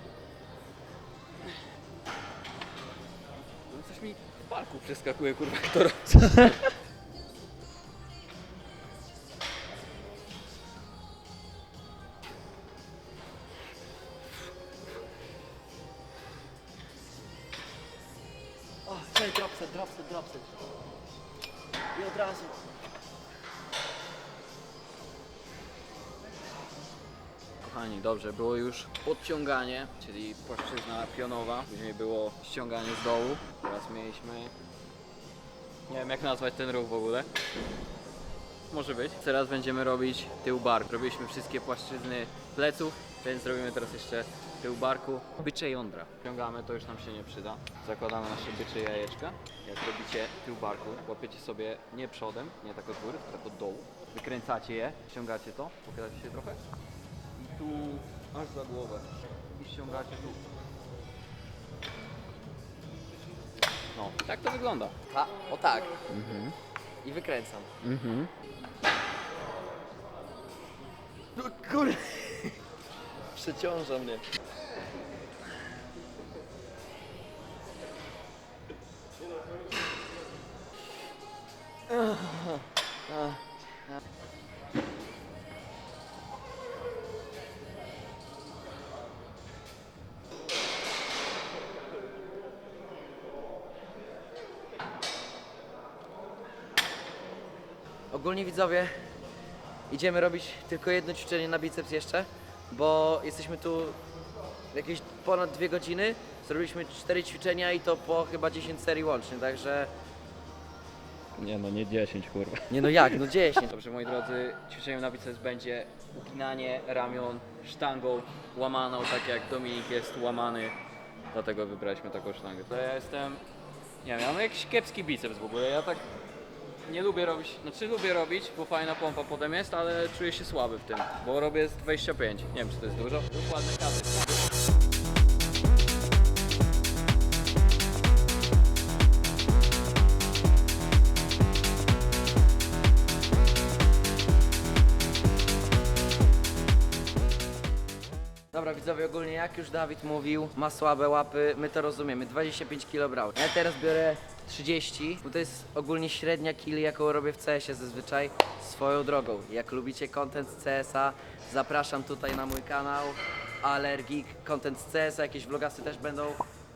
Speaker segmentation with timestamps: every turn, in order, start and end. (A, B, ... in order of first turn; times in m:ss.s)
0:03.7-0:06.7 A
0:18.9-0:20.5 B
0:21.9-0:22.7 B
0:27.6-0:34.5 A
0:35.9-0:37.3 A
0:38.7-0:56.6 A
0:57.4-0:59.1 A
0:59.6-1:00.4 A
1:04.0-1:05.0 A
1:05.1-1:06.0 B
1:06.1-1:06.6 A
1:07.0-1:07.7 B
1:07.8-1:08.3 A
1:11.4-1:12.6 B
1:13.4-1:14.2 B
1:21.9-1:23.4 B
1:38.1-1:38.9 B
1:39.9-1:44.0 B
1:44.7-1:49.9 B
1:51.4-2:00.8 A
1:52.7-1:53.7 B
2:01.3-2:03.4 A
2:04.0-2:06.0 A
2:06.9-2:14.4 A
2:28.5-2:46.4 B